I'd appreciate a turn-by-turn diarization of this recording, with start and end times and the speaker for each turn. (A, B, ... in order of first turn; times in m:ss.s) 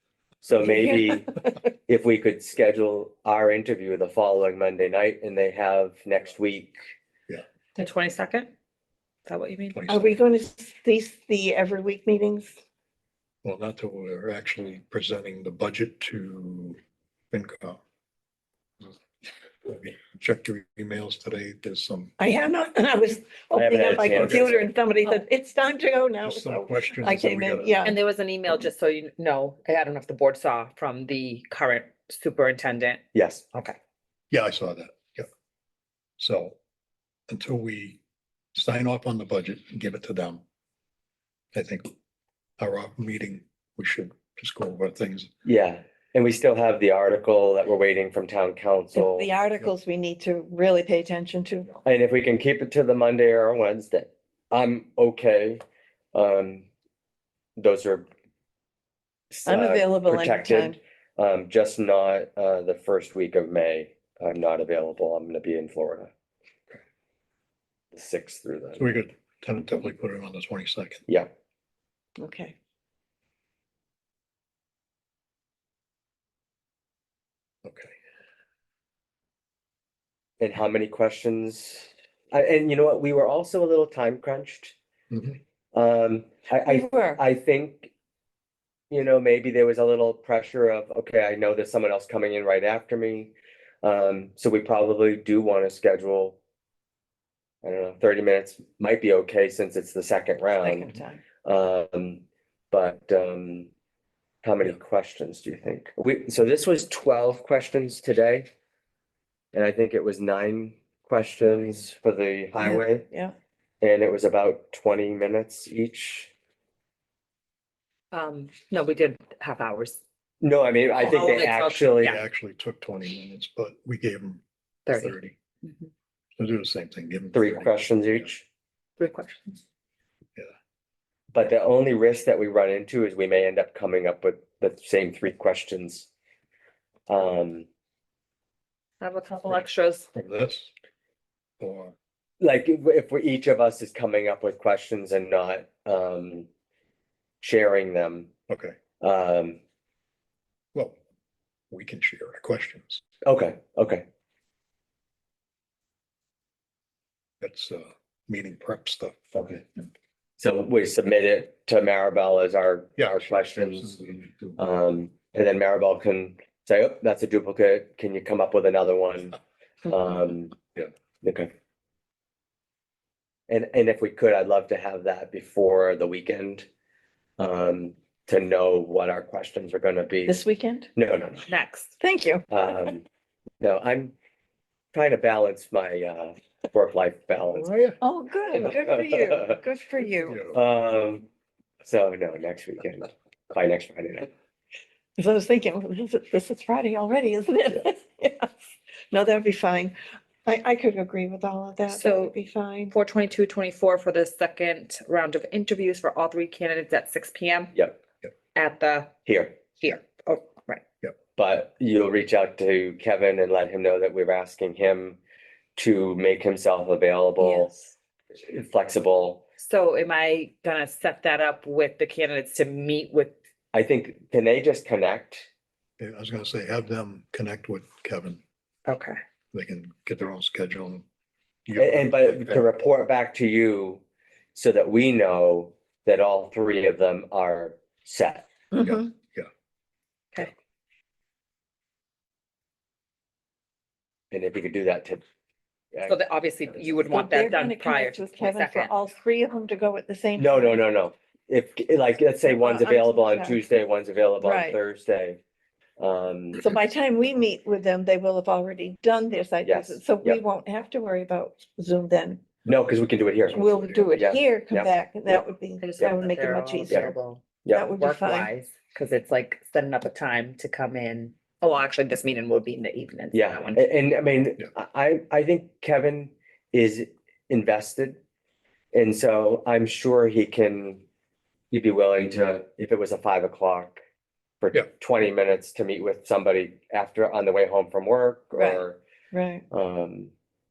0:00.4-0:01.3 A
0:00.6-0:01.6 B
0:01.8-0:06.8 A
0:07.7-0:08.5 C
0:09.2-0:09.8 C
0:09.7-0:10.2 D
0:09.9-0:12.5 B
0:13.4-0:16.8 D
0:17.3-0:17.8 D
0:19.6-0:22.1 D
0:22.2-0:28.0 B
0:23.5-0:24.7 A
0:24.0-0:24.6 D
0:26.2-0:27.8 D
0:27.8-0:33.8 C
0:33.1-0:33.4 A
0:34.3-0:35.3 D
0:36.2-0:36.6 D
0:37.3-0:38.0 D
0:38.5-0:40.4 D
0:41.5-0:41.9 D
0:42.6-0:45.3 D
0:45.4-0:49.3 A
0:48.9-0:51.7 B
0:51.8-0:55.6 A
0:56.1-0:56.7 A
0:57.6-0:58.1 A
0:59.3-1:06.1 A
0:59.4-1:00.8 B
1:07.9-1:09.0 A
1:08.8-1:11.0 D
1:12.2-1:12.5 B
1:17.6-1:17.9 D
1:20.4-1:24.7 A
1:25.1-1:25.4 D
1:25.7-1:27.9 A
1:26.6-1:27.2 B
1:28.9-1:36.4 A
1:37.6-1:40.9 A
1:40.6-1:41.2 B
1:41.4-1:43.7 A
1:44.4-1:48.5 A
1:49.5-1:53.0 A
1:52.6-1:53.3 B
1:53.8-1:56.3 A
1:58.1-2:00.0 C
2:00.4-2:02.2 A
2:01.0-2:02.2 C
2:02.0-2:05.3 D
2:04.9-2:05.9 C
2:06.4-2:08.3 D
2:07.3-2:08.4 A
2:09.0-2:09.6 C
2:11.3-2:16.1 A
2:17.1-2:17.7 A
2:19.0-2:20.1 C
2:20.1-2:20.7 D
2:21.6-2:21.9 D
2:22.4-2:26.5 A
2:27.4-2:28.3 A
2:28.5-2:28.8 D
2:29.0-2:29.6 A
2:31.7-2:33.0 D
2:33.2-2:34.0 A
2:37.4-2:39.6 D
2:40.4-2:44.0 A
2:43.0-2:44.6 D
2:44.6-2:50.6 A
2:51.2-2:51.5 A
2:53.5-2:56.6 A
2:57.4-3:00.4 A
3:00.2-3:00.9 B
3:00.9-3:01.5 A
3:01.5-3:01.9 C
3:02.0-3:02.5 B
3:02.5-3:03.0 A
3:03.6-3:04.1 A
3:04.9-3:07.7 A
3:07.5-3:08.0 D
3:08.0-3:10.4 B
3:08.9-3:09.5 A
3:10.3-3:10.5 D
3:10.5-3:11.2 A
3:11.8-3:14.3 A
3:15.2-3:18.5 B
3:19.1-3:22.9 B
3:21.9-3:22.3 C
3:22.9-3:27.7 C
3:28.5-3:29.1 C
3:29.2-3:29.6 A
3:29.8-3:30.8 C
3:31.4-3:35.2 A
3:35.8-3:37.7 A
3:37.4-3:37.9 C
3:38.4-3:39.4 A
3:39.6-3:43.3 C
3:43.7-3:45.5 A
3:46.0-3:48.4 D
3:48.8-3:49.2 C
3:49.5-3:51.0 D
3:51.6-3:52.7 D
3:51.8-3:54.0 A
3:54.5-3:58.4 A
3:58.7-3:59.1 B
3:58.8-3:59.5 D
4:04.3-4:05.2 A
4:06.0-4:09.0 C
4:07.1-4:10.8 B
4:10.4-4:15.4 A
4:12.6-4:13.6 B
4:14.4-4:14.8 B
4:16.0-4:16.6 A
4:16.6-4:22.4 B
4:19.6-4:20.4 A
4:22.6-4:25.4 A
4:23.5-4:27.1 B
4:25.8-4:27.4 C
4:27.6-4:27.9 A
4:27.7-4:28.5 B
4:27.9-4:33.9 C
4:33.3-4:38.2 A
4:38.9-4:41.0 A
4:41.7-4:44.0 A
4:44.6-4:49.0 A
4:48.5-4:49.6 B
4:49.7-4:50.3 A